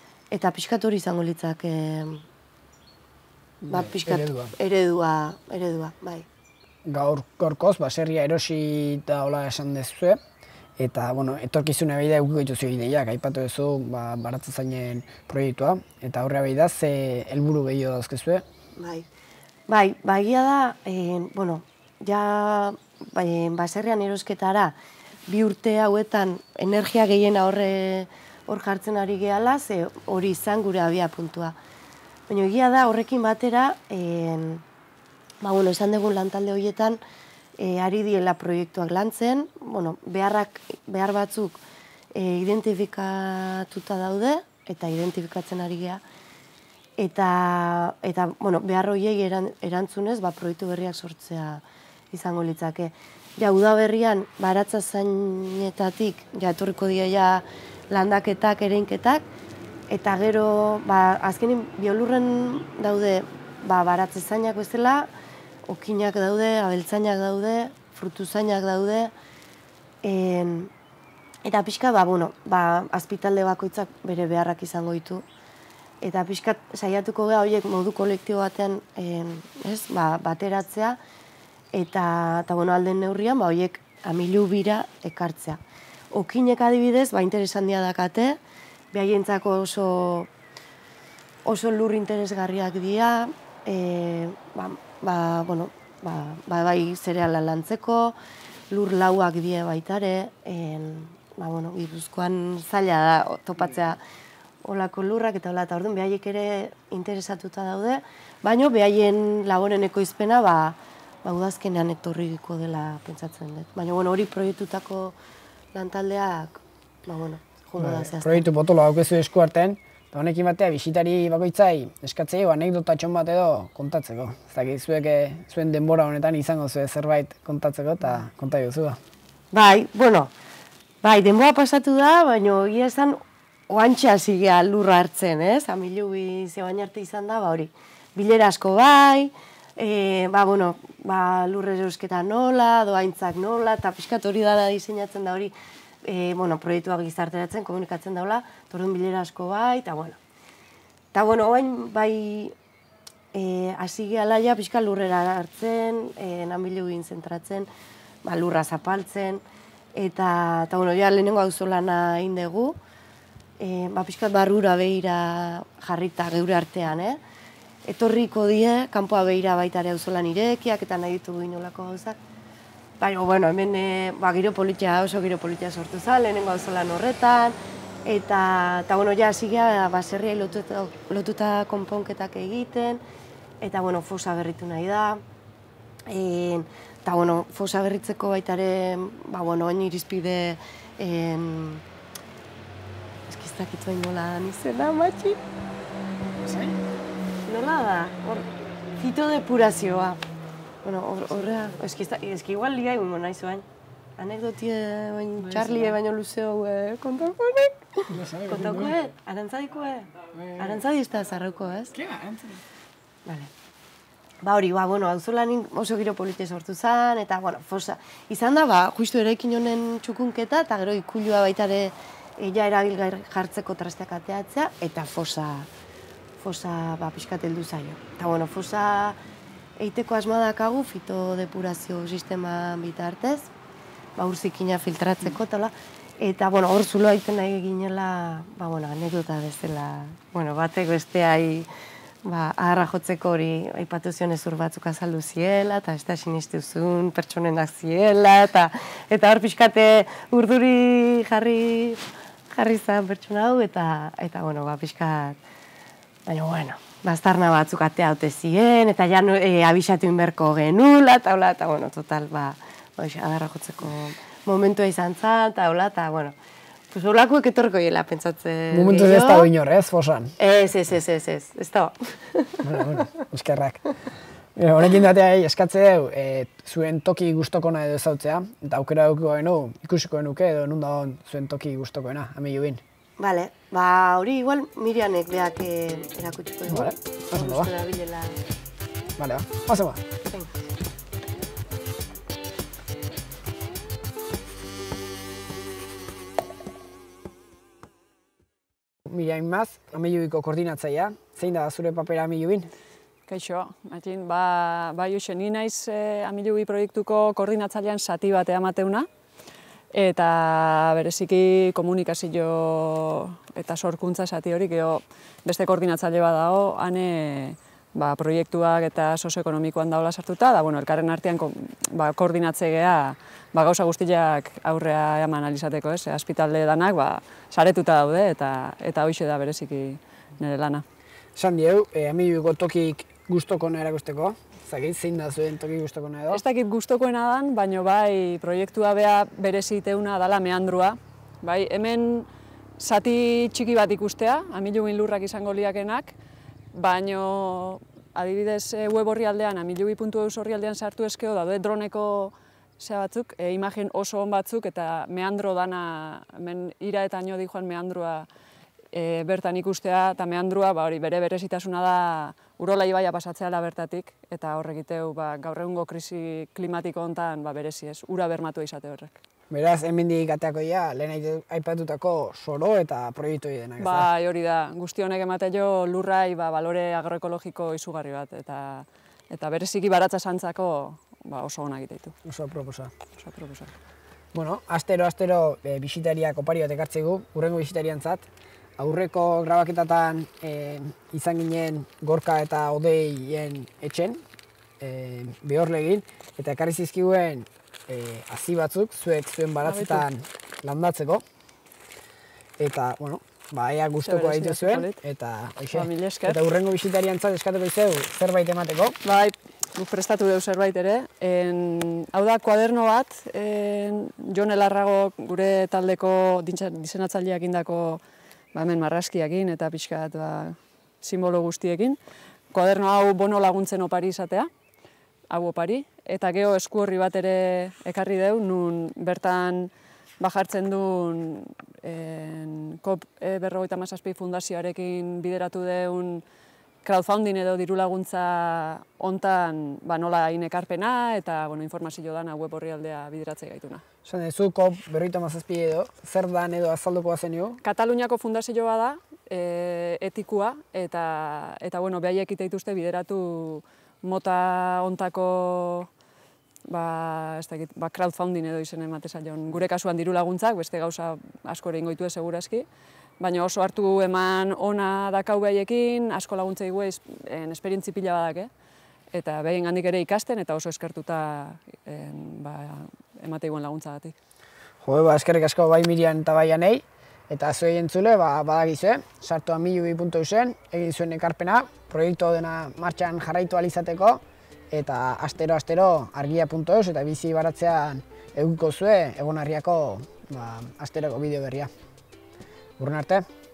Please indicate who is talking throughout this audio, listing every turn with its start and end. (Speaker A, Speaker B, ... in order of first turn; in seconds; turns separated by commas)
Speaker A: 0.3-2.2, Speaker B: 3.6-4.5, Speaker A: 3.7-6.3, Speaker B: 6.8-10.2, Speaker B: 10.8-18.4, Speaker A: 18.8-19.1, Speaker A: 19.7-31.6, Speaker A: 32.3-34.6, Speaker A: 35.4-37.0, Speaker A: 37.6-41.6, Speaker A: 42.1-46.0, Speaker A: 47.0-59.3, Speaker A: 59.9-65.1, Speaker A: 65.7-69.1, Speaker A: 70.0-70.7, Speaker A: 71.5-75.2, Speaker A: 76.0-81.0, Speaker A: 81.7-85.6, Speaker A: 86.1-88.4, Speaker A: 88.9-90.3, Speaker A: 91.5-98.2, Speaker A: 98.7-104.0, Speaker A: 104.6-115.2, Speaker A: 115.7-118.5, Speaker B: 117.8-129.0, Speaker A: 129.5-130.3, Speaker A: 131.0-150.2, Speaker A: 151.1-152.5, Speaker A: 153.3-157.7, Speaker A: 158.2-159.4, Speaker A: 159.9-162.8, Speaker A: 163.6-167.2, Speaker A: 167.8-172.2, Speaker A: 173.0-183.0, Speaker A: 183.6-185.2, Speaker A: 186.1-191.8, Speaker A: 193.3-195.4, Speaker B: 196.4-196.8, Speaker A: 197.5-200.2, Speaker A: 200.8-203.7, Speaker A: 204.2-212.0, Speaker B: 205.4-206.0, Speaker B: 208.1-209.0, Speaker B: 211.9-212.6, Speaker A: 213.2-213.5, Speaker A: 214.4-225.7, Speaker A: 226.4-229.2, Speaker A: 229.8-233.5, Speaker A: 234.2-241.7, Speaker A: 242.2-255.4, Speaker A: 256.3-266.4, Speaker A: 266.9-269.5, Speaker B: 268.7-270.3, Speaker A: 270.4-272.6, Speaker B: 272.6-273.8, Speaker B: 274.6-282.8, Speaker A: 283.2-288.4, Speaker B: 286.7-287.7, Speaker B: 289.2-290.0, Speaker B: 299.1-302.7, Speaker C: 303.3-309.1, Speaker C: 309.9-330.8, Speaker B: 331.4-336.4, Speaker C: 336.3-342.3, Speaker C: 342.8-346.1, Speaker C: 346.7-358.3, Speaker C: 358.9-369.1, Speaker B: 369.5-374.1, Speaker C: 373.8-382.1, Speaker B: 382.2-382.9, Speaker C: 383.2-383.7, Speaker B: 384.3-394.2, Speaker B: 394.8-401.2, Speaker C: 399.6-400.1, Speaker B: 402.6-409.0, Speaker C: 404.0-405.0, Speaker C: 405.7-406.4, Speaker C: 409.0-418.0, Speaker C: 418.5-422.0, Speaker C: 422.5-424.5, Speaker C: 425.3-436.2, Speaker C: 436.8-443.8, Speaker B: 444.1-447.6, Speaker C: 447.6-455.9, Speaker C: 456.7-462.7, Speaker C: 463.2-468.5, Speaker C: 469.1-474.1, Speaker B: 474.8-491.7, Speaker B: 492.8-493.2